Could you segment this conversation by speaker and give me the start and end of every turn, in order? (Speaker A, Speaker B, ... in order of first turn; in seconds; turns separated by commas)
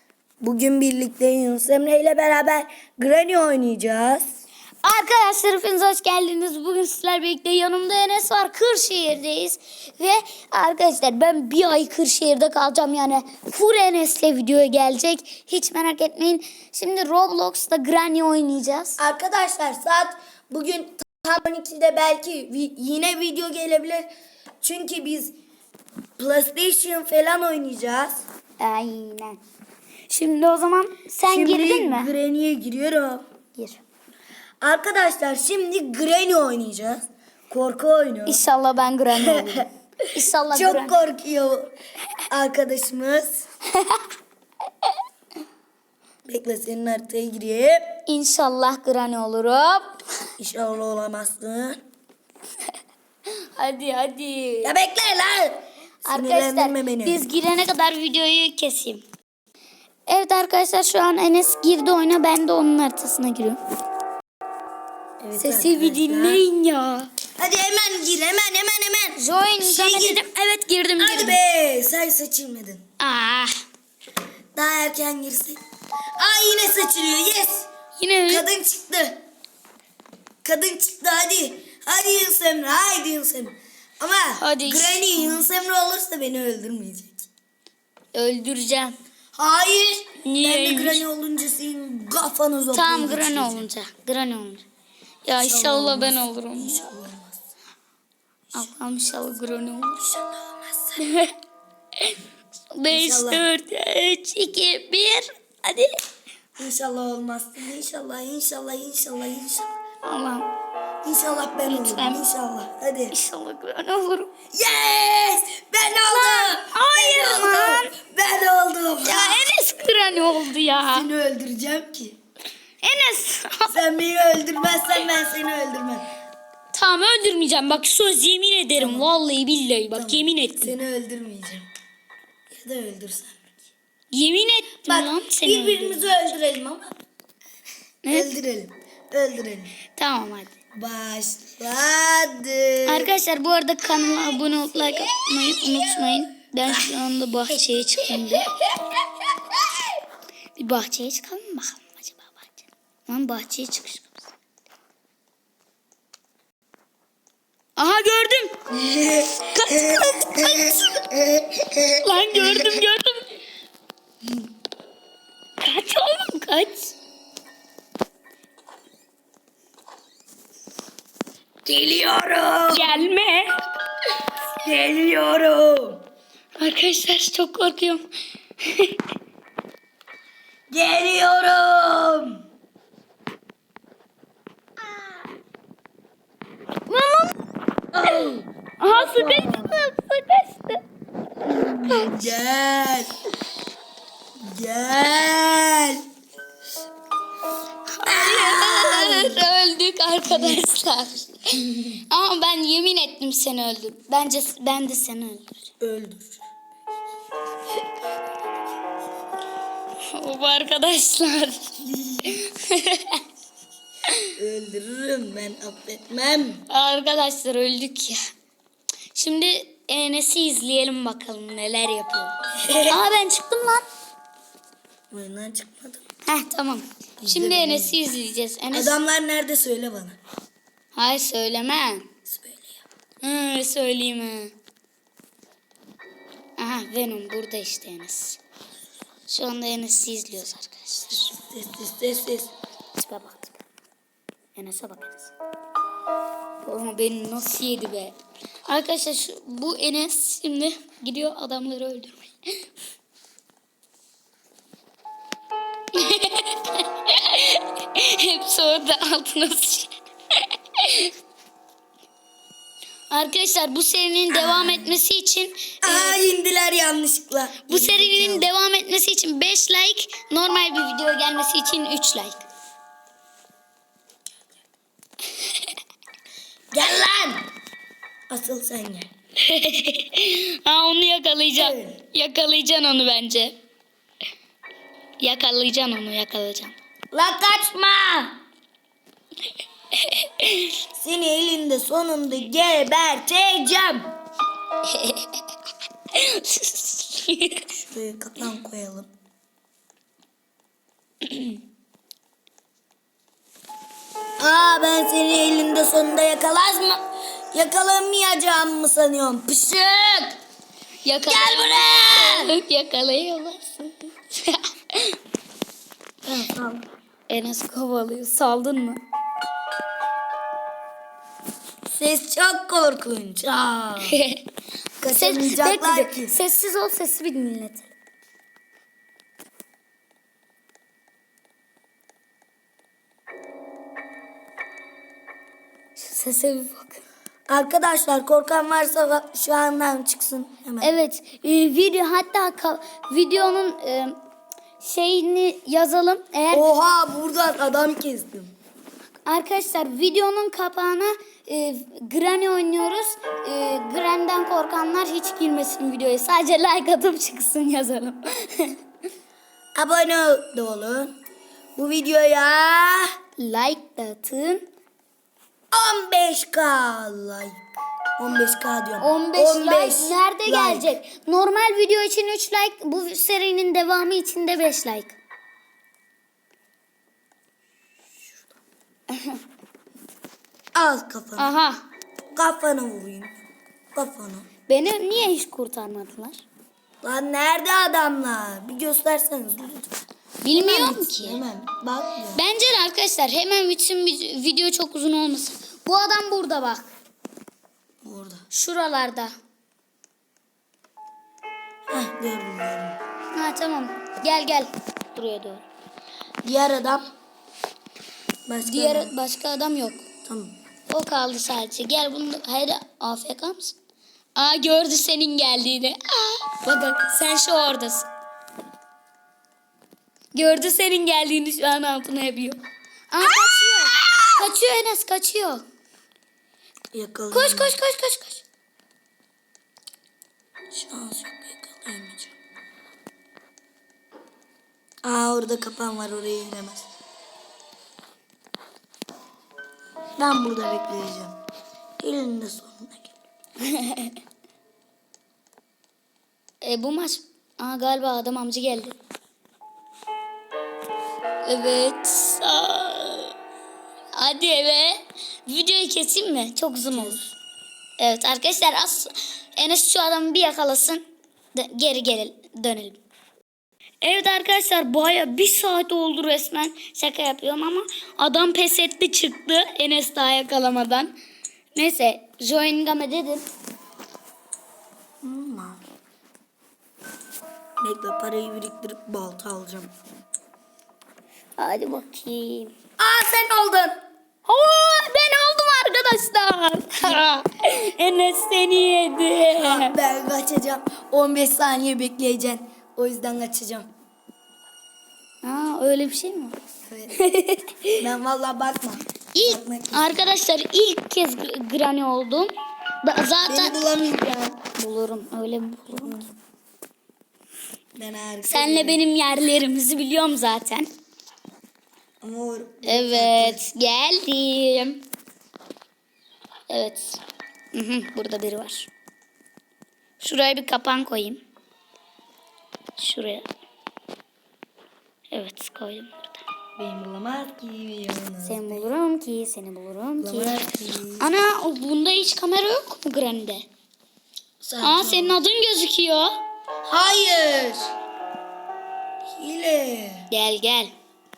Speaker A: 0.4-4.3, Speaker B: 4.8-19.0, Speaker A: 19.0-24.1, Speaker A: 24.6-25.3, Speaker A: 26.2-28.2, Speaker B: 28.6-29.4, Speaker B: 30.1-32.1, Speaker A: 31.3-33.2, Speaker B: 33.6-33.8, Speaker A: 34.6-38.4, Speaker B: 38.3-41.0, Speaker A: 39.2-39.7, Speaker A: 40.5-41.7, Speaker A: 42.3-43.5, Speaker B: 43.7-44.1, Speaker A: 46.3-48.0, Speaker B: 48.1-50.0, Speaker A: 50.4-51.8, Speaker B: 53.6-54.7, Speaker A: 54.6-57.2, Speaker B: 56.0-59.0, Speaker B: 60.1-63.6, Speaker A: 65.2-66.4, Speaker B: 65.4-67.1, Speaker A: 67.4-70.2, Speaker B: 69.2-71.4, Speaker A: 71.0-72.8, Speaker B: 73.0-73.5, Speaker A: 74.6-75.6, Speaker A: 76.2-77.7, Speaker B: 78.0-78.5, Speaker A: 78.3-79.2, Speaker A: 80.4-87.3, Speaker B: 84.4-85.4, Speaker B: 88.1-89.0, Speaker A: 89.3-93.7, Speaker B: 90.2-91.0, Speaker B: 92.7-94.7, Speaker B: 95.2-97.0, Speaker A: 95.4-97.4, Speaker B: 98.5-100.0, Speaker A: 100.0-101.0, Speaker B: 101.0-101.3, Speaker B: 102.7-106.0, Speaker A: 102.9-103.5, Speaker A: 106.6-109.7, Speaker B: 110.0-110.5, Speaker A: 111.0-113.2, Speaker B: 111.6-112.2, Speaker B: 113.1-114.3, Speaker A: 114.5-119.5, Speaker B: 116.1-117.9, Speaker B: 119.0-121.1, Speaker A: 120.9-122.2, Speaker B: 122.8-123.8, Speaker A: 123.7-126.0, Speaker B: 126.7-130.8, Speaker A: 128.8-129.1, Speaker A: 129.9-131.7, Speaker A: 132.5-133.4, Speaker B: 134.1-136.1, Speaker A: 134.9-136.9, Speaker B: 138.0-138.3, Speaker A: 138.1-139.8, Speaker B: 139.9-140.5, Speaker A: 140.8-143.1, Speaker B: 142.9-148.5, Speaker A: 145.1-146.0, Speaker A: 146.7-146.9, Speaker A: 148.0-148.9, Speaker B: 150.6-154.2, Speaker B: 157.8-158.6, Speaker A: 158.7-162.8, Speaker B: 159.5-160.9, Speaker B: 162.0-163.3, Speaker B: 165.6-166.9, Speaker A: 171.7-173.1, Speaker B: 172.7-173.5, Speaker A: 174.6-176.0, Speaker B: 176.6-178.1, Speaker B: 178.6-179.0, Speaker A: 180.7-182.4, Speaker B: 186.9-187.4, Speaker A: 187.9-189.7, Speaker B: 188.8-190.8, Speaker A: 191.5-193.2, Speaker B: 191.8-192.3, Speaker A: 194.4-196.0, Speaker B: 197.9-205.7, Speaker A: 198.1-199.5, Speaker A: 200.3-200.7, Speaker A: 201.7-202.0, Speaker A: 205.8-206.4, Speaker B: 210.1-213.2, Speaker A: 211.8-212.4, Speaker B: 214.1-214.3, Speaker A: 214.4-216.6, Speaker B: 216.7-218.2, Speaker B: 219.2-222.3, Speaker A: 222.6-223.0, Speaker B: 222.9-223.8, Speaker A: 225.1-226.0, Speaker B: 226.3-229.0, Speaker A: 227.2-228.0, Speaker A: 228.7-230.2, Speaker B: 230.9-232.1, Speaker A: 232.3-232.8, Speaker B: 233.2-234.5, Speaker B: 236.6-238.4, Speaker B: 239.3-241.3, Speaker A: 241.1-242.5, Speaker B: 242.9-243.5, Speaker B: 244.6-245.3, Speaker B: 246.6-248.2, Speaker B: 248.7-252.6, Speaker B: 255.9-261.1, Speaker B: 263.1-266.2, Speaker A: 264.3-264.9, Speaker A: 265.8-268.5, Speaker B: 267.7-272.5, Speaker B: 275.4-275.7, Speaker A: 276.7-277.5, Speaker A: 278.3-279.1, Speaker B: 279.4-283.6, Speaker A: 281.6-282.0, Speaker B: 285.2-286.8, Speaker A: 287.1-288.4, Speaker B: 289.9-290.8, Speaker A: 290.9-294.1, Speaker B: 294.9-295.4, Speaker B: 296.1-297.7, Speaker A: 297.8-299.1, Speaker B: 301.2-301.6, Speaker A: 304.4-310.4, Speaker B: 311.0-315.2, Speaker A: 311.3-312.6, Speaker A: 316.2-316.9, Speaker B: 317.3-319.0, Speaker A: 321.9-324.2, Speaker B: 324.1-324.4, Speaker A: 325.0-326.4, Speaker B: 325.1-327.9, Speaker B: 336.0-337.0, Speaker A: 337.5-341.0, Speaker B: 340.8-344.2, Speaker B: 344.8-346.7, Speaker A: 346.5-348.5, Speaker B: 349.2-358.8, Speaker A: 359.8-361.1, Speaker A: 361.8-363.1, Speaker B: 363.4-364.7, Speaker A: 365.7-367.6, Speaker A: 368.2-370.9, Speaker B: 369.0-375.2, Speaker B: 379.1-379.4, Speaker A: 380.8-381.5, Speaker B: 381.4-381.9, Speaker A: 382.4-383.3, Speaker A: 383.9-384.5, Speaker B: 384.7-386.4, Speaker A: 387.0-389.9, Speaker B: 390.4-391.4, Speaker A: 390.5-392.4, Speaker B: 392.4-396.9, Speaker A: 398.0-398.4, Speaker B: 398.5-399.3, Speaker A: 401.9-403.0, Speaker B: 403.3-405.6, Speaker A: 406.4-407.1, Speaker A: 408.5-409.1, Speaker B: 408.6-410.1, Speaker A: 410.2-410.6, Speaker B: 410.9-413.8, Speaker B: 414.4-418.1, Speaker B: 420.3-425.6, Speaker A: 423.7-424.4, Speaker A: 426.9-427.8, Speaker B: 427.3-428.4, Speaker A: 430.7-432.3, Speaker A: 435.0-436.9, Speaker A: 440.2-441.4, Speaker A: 442.0-443.2, Speaker B: 443.6-444.2, Speaker B: 446.6-449.0, Speaker B: 451.4-453.3, Speaker B: 454.1-457.2, Speaker A: 456.9-457.3, Speaker B: 458.0-461.0, Speaker B: 461.5-463.0, Speaker B: 464.0-471.1, Speaker B: 471.8-473.5, Speaker A: 475.2-475.8, Speaker A: 477.8-479.9, Speaker B: 481.6-482.7, Speaker A: 483.0-484.0, Speaker B: 484.5-490.0, Speaker A: 489.6-493.9, Speaker B: 495.4-496.6, Speaker A: 496.9-497.2, Speaker B: 497.1-498.0, Speaker A: 498.0-500.3, Speaker B: 499.3-502.5, Speaker B: 503.0-503.8, Speaker A: 503.5-504.6, Speaker B: 504.8-506.2, Speaker A: 505.9-506.3, Speaker A: 508.0-509.1, Speaker B: 508.4-510.9, Speaker A: 512.2-513.6, Speaker B: 512.9-515.0, Speaker B: 516.7-517.2, Speaker B: 517.7-518.9, Speaker B: 520.2-521.4, Speaker B: 523.0-523.5, Speaker B: 525.3-526.4, Speaker A: 526.8-528.8, Speaker B: 528.5-530.6, Speaker A: 530.2-531.4, Speaker B: 531.2-533.7, Speaker A: 534.6-535.4, Speaker B: 534.8-536.4, Speaker A: 536.9-537.9, Speaker A: 539.4-540.3, Speaker B: 540.3-540.9